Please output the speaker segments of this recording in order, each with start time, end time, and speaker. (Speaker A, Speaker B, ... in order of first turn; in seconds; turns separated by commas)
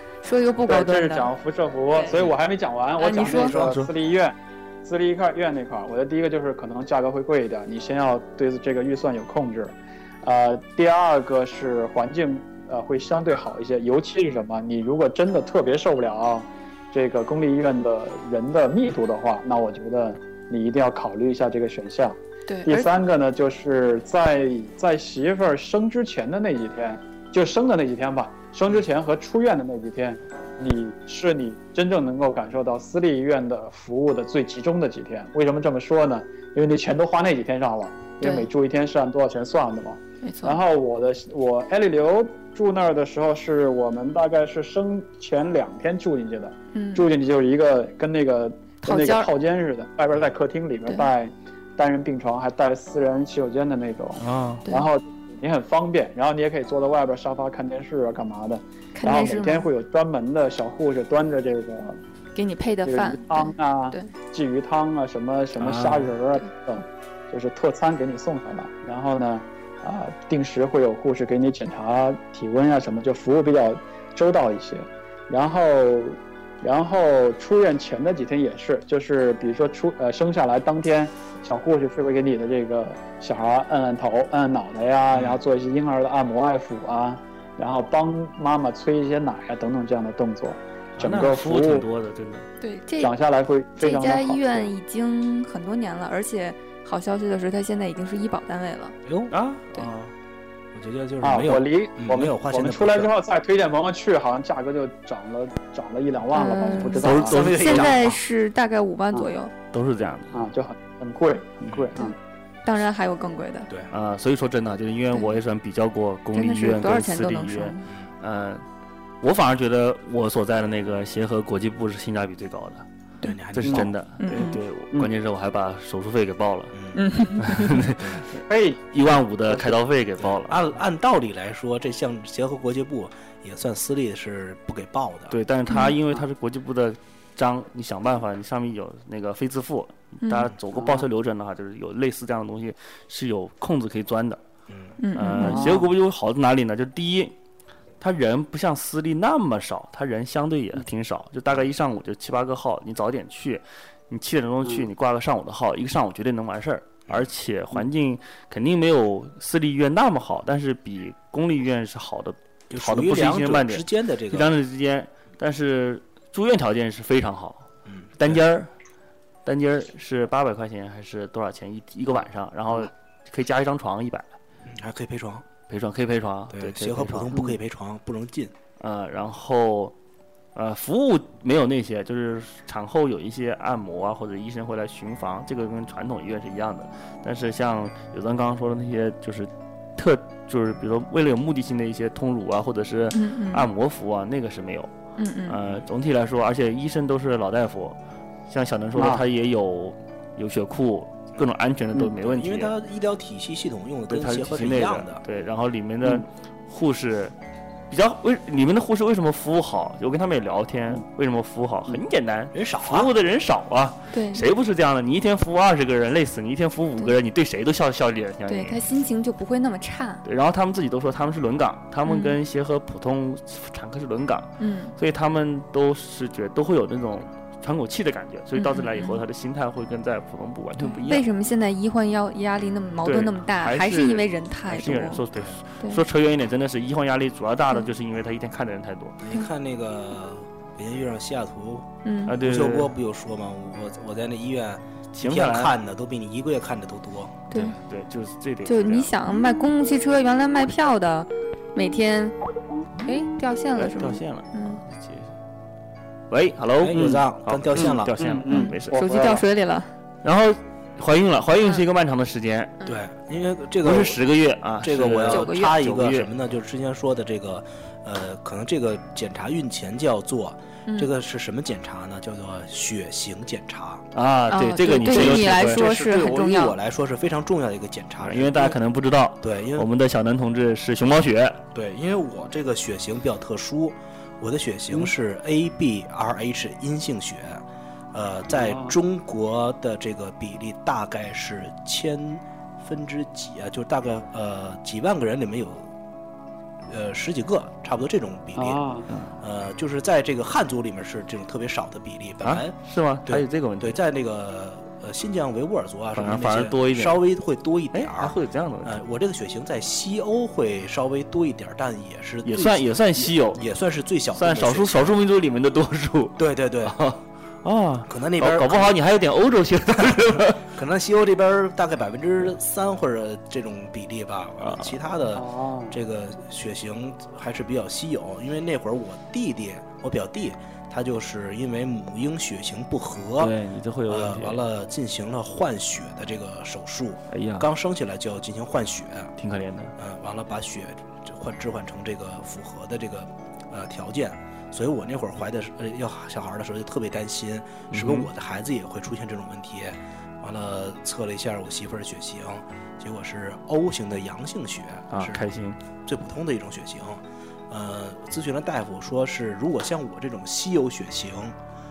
Speaker A: 0.2-1.3, Speaker B: 0.7-62.0, Speaker A: 3.0-3.5, Speaker C: 3.2-3.7, Speaker D: 3.4-3.9, Speaker A: 22.5-22.9, Speaker A: 38.2-38.5, Speaker A: 40.2-40.6, Speaker A: 46.7-47.1, Speaker A: 48.8-49.3, Speaker D: 54.2-54.6, Speaker A: 59.0-59.7, Speaker A: 62.4-64.1, Speaker B: 62.9-91.8, Speaker D: 65.6-66.1, Speaker C: 85.1-85.4, Speaker D: 91.0-92.5, Speaker A: 92.6-93.1, Speaker B: 93.0-94.7, Speaker A: 93.8-99.0, Speaker C: 99.0-99.3, Speaker D: 99.3-100.1, Speaker C: 100.7-103.1, Speaker B: 101.2-107.4, Speaker A: 106.3-109.5, Speaker D: 107.0-108.0, Speaker C: 107.2-108.2, Speaker D: 109.7-110.3, Speaker B: 110.3-112.1, Speaker C: 111.6-111.9, Speaker A: 112.0-113.7, Speaker D: 113.9-118.6, Speaker A: 115.1-115.4, Speaker A: 116.3-117.8, Speaker D: 119.2-122.9, Speaker C: 123.2-123.9, Speaker D: 123.5-126.7, Speaker B: 123.6-124.4, Speaker A: 124.2-124.6, Speaker C: 126.7-127.0, Speaker A: 127.0-127.8, Speaker D: 127.4-130.6, Speaker B: 128.5-128.8, Speaker B: 129.5-129.8, Speaker C: 130.2-135.4, Speaker D: 135.3-144.4, Speaker A: 135.7-135.9, Speaker A: 140.2-140.5, Speaker B: 140.8-141.1, Speaker C: 144.7-144.9, Speaker A: 145.0-145.7, Speaker D: 145.1-147.3, Speaker B: 145.4-145.9, Speaker D: 148.0-167.7, Speaker C: 162.7-164.5, Speaker C: 167.9-168.4, Speaker D: 168.2-168.7, Speaker D: 169.4-174.3, Speaker C: 174.7-175.4, Speaker D: 175.7-177.4, Speaker C: 176.5-178.5, Speaker D: 178.8-179.9, Speaker D: 180.6-194.9, Speaker A: 193.1-193.7, Speaker A: 195.2-195.6, Speaker D: 195.5-198.0, Speaker D: 198.5-202.7, Speaker B: 198.9-199.2, Speaker C: 202.2-205.2, Speaker D: 204.1-207.3, Speaker D: 207.9-218.8, Speaker C: 212.5-213.1, Speaker A: 214.1-214.4, Speaker A: 218.5-220.2, Speaker D: 220.2-231.2, Speaker A: 222.1-222.4, Speaker A: 224.6-224.9, Speaker A: 228.6-229.2, Speaker A: 230.8-235.2, Speaker D: 233.1-239.2, Speaker C: 239.2-247.4, Speaker A: 242.1-242.3, Speaker D: 242.3-242.9, Speaker D: 245.1-245.8, Speaker A: 247.5-247.8, Speaker D: 247.5-249.1, Speaker A: 248.6-252.4, Speaker A: 253.0-254.8, Speaker D: 253.8-255.3, Speaker D: 256.3-259.4, Speaker C: 256.8-258.1, Speaker B: 256.9-257.2, Speaker B: 257.8-259.4, Speaker A: 258.5-259.9, Speaker D: 260.2-262.8, Speaker C: 262.9-264.2, Speaker D: 263.8-266.3, Speaker C: 264.8-274.1, Speaker A: 265.3-265.8, Speaker D: 274.1-275.9, Speaker A: 274.5-276.8, Speaker C: 275.1-278.8, Speaker D: 278.2-281.6, Speaker C: 279.4-279.9, Speaker C: 281.7-295.9, Speaker B: 288.5-288.9, Speaker C: 296.9-298.9, Speaker B: 298.6-299.1, Speaker C: 299.4-302.8, Speaker D: 302.4-304.0, Speaker C: 303.3-315.2, Speaker D: 306.1-307.2, Speaker D: 307.9-309.0, Speaker D: 312.4-313.6, Speaker D: 314.4-320.6, Speaker C: 316.4-317.0, Speaker C: 318.1-318.9, Speaker C: 320.0-333.6, Speaker D: 324.6-324.9, Speaker B: 325.4-326.0, Speaker D: 333.4-334.6, Speaker C: 334.1-339.3, Speaker D: 337.3-337.7, Speaker D: 339.4-339.9, Speaker C: 340.0-355.4, Speaker D: 347.9-348.3, Speaker D: 355.1-355.8, Speaker C: 356.1-361.6